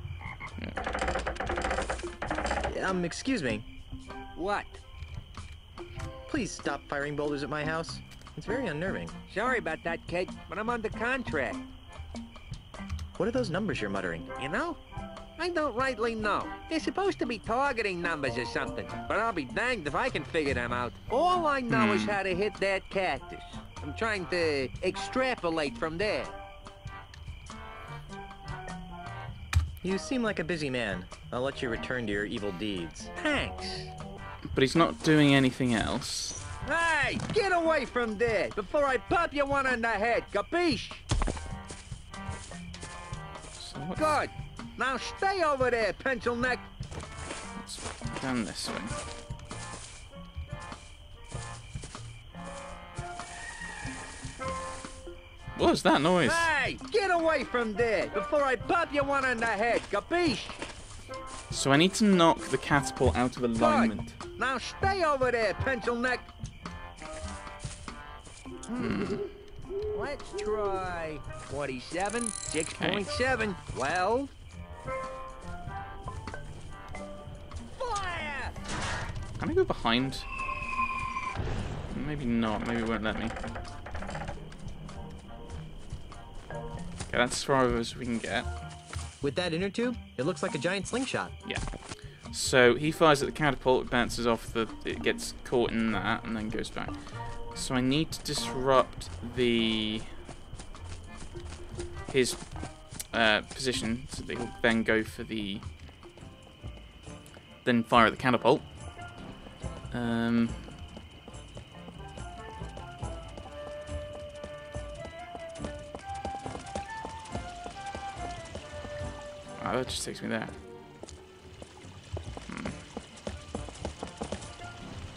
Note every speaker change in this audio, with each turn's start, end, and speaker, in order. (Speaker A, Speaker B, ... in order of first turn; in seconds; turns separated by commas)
Speaker A: 2.6-3.6, Speaker B: 4.3-4.8, Speaker A: 6.3-9.1, Speaker B: 9.3-11.6, Speaker A: 13.2-14.3, Speaker B: 14.4-14.8, Speaker B: 15.4-26.3, Speaker C: 21.7-22.1, Speaker A: 29.8-33.1, Speaker B: 33.1-33.9, Speaker C: 34.5-36.4, Speaker B: 36.6-41.0, Speaker C: 43.5-44.1, Speaker B: 43.9-46.6, Speaker C: 47.5-49.0, Speaker C: 55.5-56.5, Speaker B: 56.2-60.6, Speaker C: 61.5-64.2, Speaker B: 63.5-66.2, Speaker C: 68.7-69.3, Speaker B: 68.8-69.2, Speaker B: 69.9-74.3, Speaker C: 72.8-73.1, Speaker B: 77.7-78.5, Speaker C: 79.4-80.2, Speaker C: 81.9-83.3, Speaker C: 87.1-88.5, Speaker A: 89.2-91.3, Speaker C: 91.4-100.1, Speaker C: 102.1-105.7, Speaker C: 107.6-108.7, Speaker C: 109.9-110.8, Speaker C: 119.6-120.5, Speaker C: 122.5-122.8